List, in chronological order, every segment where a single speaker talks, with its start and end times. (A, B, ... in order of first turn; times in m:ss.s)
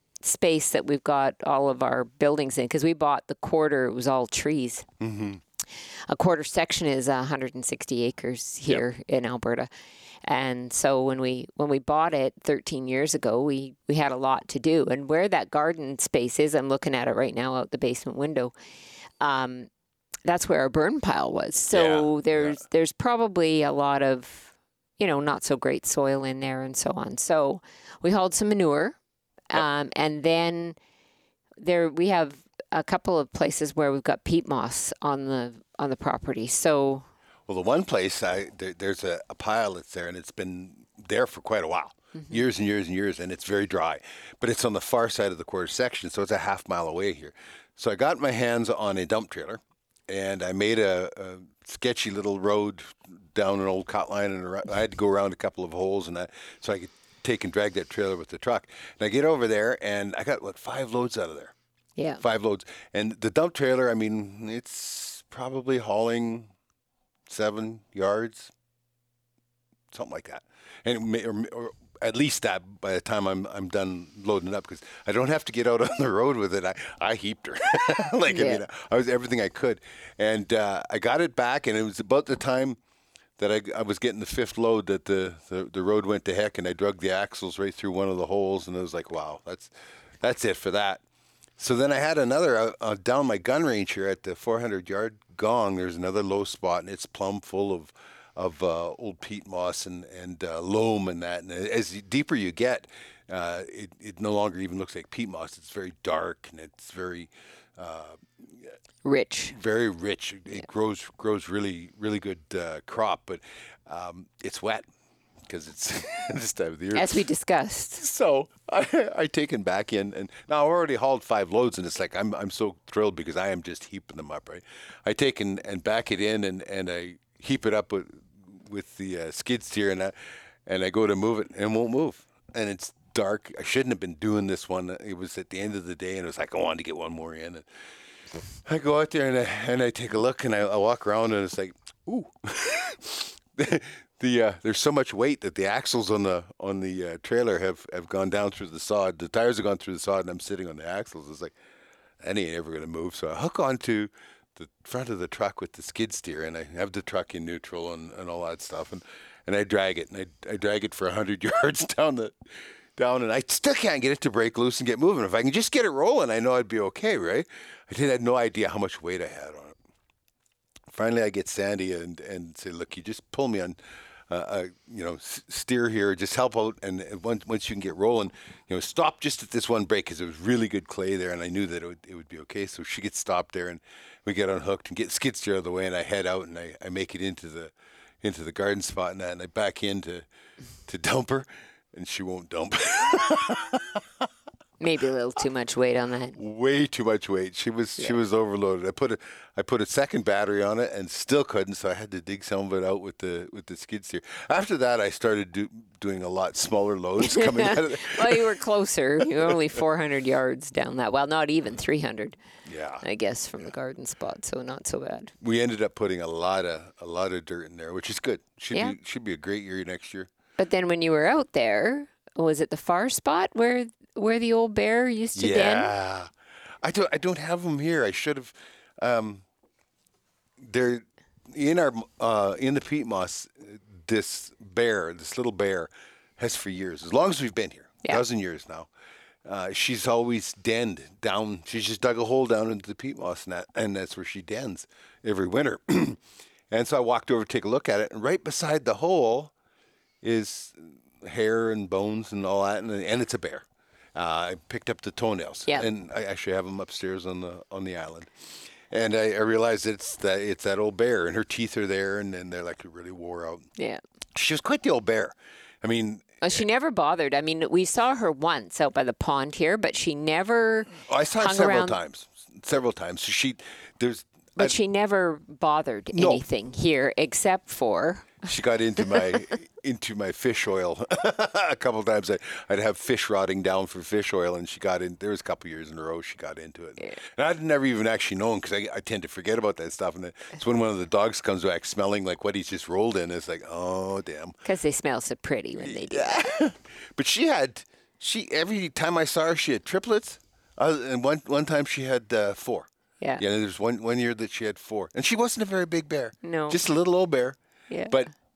0:00.2-0:04.9 A
0:05.0-0:05.4 B
0:05.9-0:09.7 A
0:10.2-0:18.5 A
0:19.2-0:19.7 A
0:20.2-0:29.0 A
0:21.7-0:22.6 B
0:29.5-0:30.8 A
0:31.6-0:37.1 A
0:37.5-1:01.5 B
0:42.2-0:42.4 A
1:02.0-1:02.2 A
1:02.2-1:06.5 B
1:07.3-1:08.5 B
1:09.9-1:22.8 B
1:18.3-1:18.6 A
1:23.4-1:31.0 B
1:31.6-1:48.7 B
1:49.0-1:49.6 A
1:49.5-1:54.9 B
1:55.5-1:57.2 B
1:56.9-1:58.0 A
1:58.0-2:10.2 B
2:10.7-2:17.7 B
2:18.6-2:31.6 B
2:32.2-2:42.3 B
2:43.0-2:49.8 B
2:50.9-2:53.8 B
2:54.3-3:10.3 B
3:10.9-3:14.0 B
3:14.8-3:16.4 A
3:16.4-3:28.6 B
3:27.2-3:32.4 A
3:32.7-3:33.0 B
3:33.0-3:35.3 A
3:35.4-3:40.3 B
3:40.6-3:45.9 A
3:45.4-3:46.3 B
3:46.8-3:49.4 B
3:50.6-3:58.9 B
3:59.4-4:09.5 B
4:10.2-4:23.7 B
4:24.4-4:26.6 B
4:26.4-4:32.0 A
4:31.1-4:34.8 B
4:34.6-4:38.5 A
4:36.1-4:36.4 B
4:38.4-4:54.6 B
4:39.0-4:39.4 A
4:54.6-4:56.4 A
4:55.8-5:07.6 B
5:06.4-5:06.8 A
5:07.9-5:08.2 A